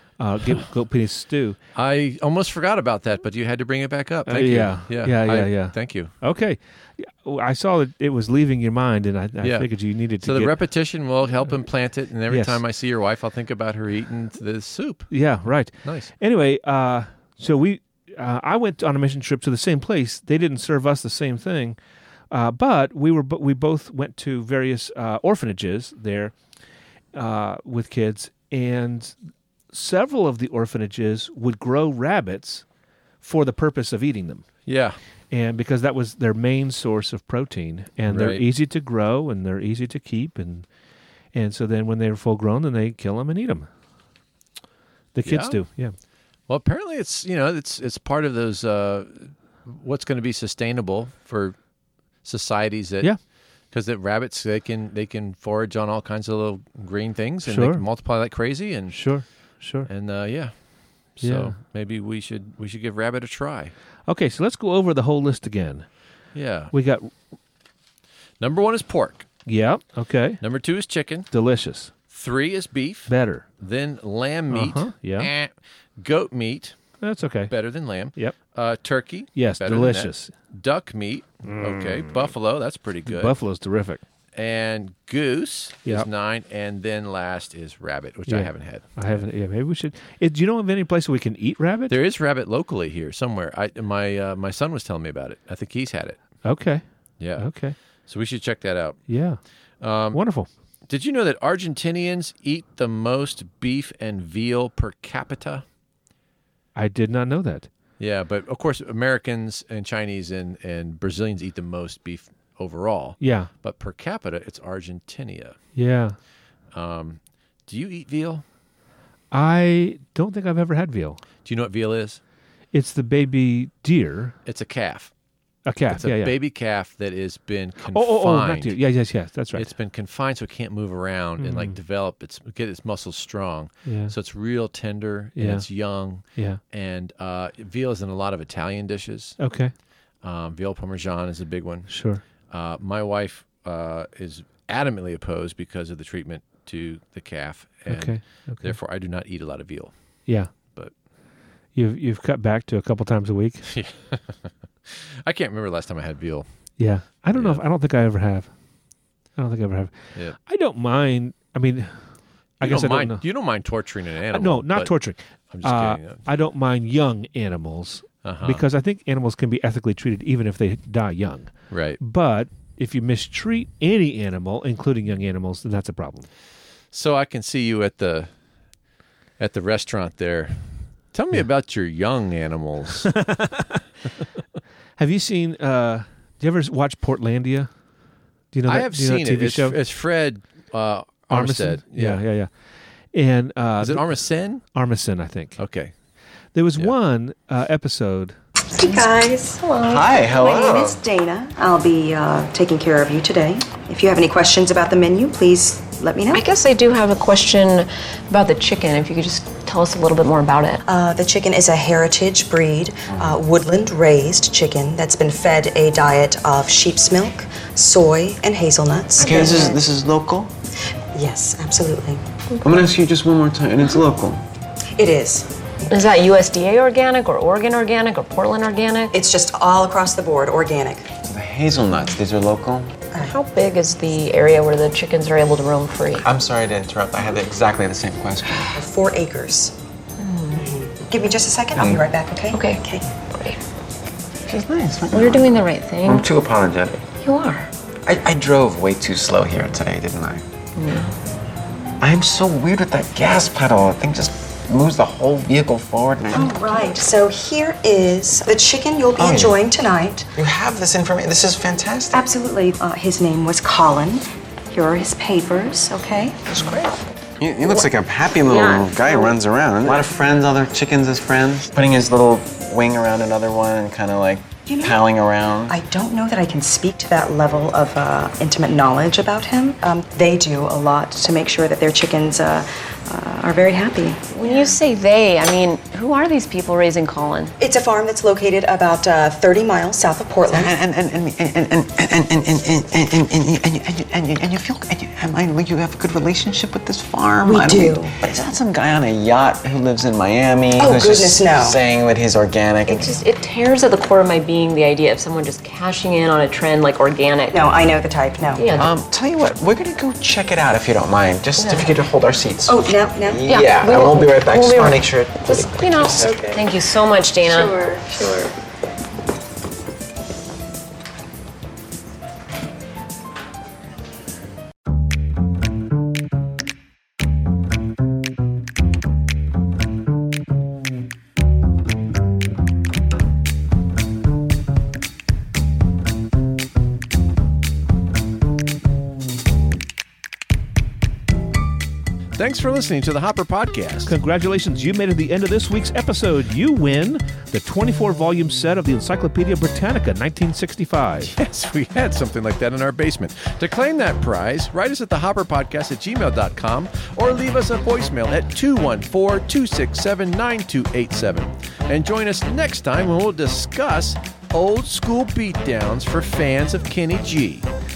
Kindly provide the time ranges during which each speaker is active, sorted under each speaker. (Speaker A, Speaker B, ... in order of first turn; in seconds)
Speaker A: 0.2-1.6, 4.2-10.5, 12.3-12.6, 15.1-21.8, 22.3-26.3, 27.1-29.2, 29.7-32.6, 33.2-34.5, 35.3-40.7, 41.3-43.7, 45.1-45.9, 57.4-57.8, 58.9-59.9, 61.2-61.5, 64.1-65.9, 66.7-67.1, 69.5-70.4, 71.3-71.9, 73.1-73.5, 74.5-75.3, 77.0-77.5, 79.3-80.3, 81.4-82.3, 83.0-84.0, 88.3-92.0, 96.4-96.8, 97.4-97.7, 99.1-99.4, 100.1-100.5, 106.7-107.7, 113.2-113.5, 115.7-116.2, 119.3-121.2, 122.7-124.3, 125.7-126.3, 127.8-129.7, 131.4-131.8, 133.8-134.1, 135.3-135.7, 136.2-136.6, 139.4-139.7, 141.9-142.2, 147.9-148.8, 150.3-150.5, 151.7-153.7, 156.8-158.5, 159.3-162.1, 162.6-163.2, 164.3-176.3, 183.1-183.8, 185.0-187.7, 188.5-189.8, 191.3-192.5, 193.1-195.6, 196.5-198.3, 344.0-351.3
Speaker B: 1.7-6.1, 9.4-9.7, 10.2-15.1, 15.8-16.1, 34.6-35.0, 38.0-38.4, 45.2-45.6, 46.5-51.6, 52.2-53.1, 53.7-59.0, 59.9-60.5, 61.1-63.7, 66.3-66.7, 68.4-69.3, 70.4-71.3, 72.1-76.8, 77.5-83.3, 84.3-88.9, 91.9-96.2, 97.2-97.5, 98.1-99.0, 99.8-100.2, 100.9-105.6, 108.0-115.6, 116.7-118.4, 121.4-122.2, 124.4-125.1, 125.9-128.7, 129.5-139.4, 140.2-141.9, 142.5-149.9, 150.6-150.9, 153.7-156.5, 157.3-157.6, 162.6-164.9, 165.5-166.2, 168.2-168.6, 171.7-172.0, 176.9-178.3, 179.4-183.2, 188.7-192.2, 193.8-194.6, 195.6-195.9, 342.4-344.1, 351.3-367.7
Speaker C: 198.7-199.6, 200.2-206.4, 210.9-219.7, 221.1-222.2, 225.0-226.0, 229.1-231.1, 238.7-239.7, 240.6-243.1, 256.3-260.3, 262.1-266.5, 274.7-275.0, 275.7-284.8, 287.6-290.7, 297.4-298.1, 300.8-301.8, 307.5-308.7, 312.6-313.4, 317.4-318.4
Speaker D: 198.7-200.0, 206.3-210.8, 219.2-219.8, 225.9-229.1, 233.2-236.2, 240.2-240.7, 242.5-242.8, 243.3-243.6, 245.1-246.3, 247.2-247.7, 250.8-251.1, 268.5-269.3, 284.3-287.5, 302.9-307.6, 308.6-308.9, 311.6-311.9, 313.5-318.1
Speaker E: 199.8-201.0, 213.1-213.4, 219.2-220.5, 222.6-224.4, 231.2-232.9, 236.2-238.8, 241.7-242.1, 244.4-247.0, 248.0-250.4, 252.0-257.0, 259.2-259.6, 260.4-262.2, 266.5-275.8, 290.5-303.1, 308.7-316.6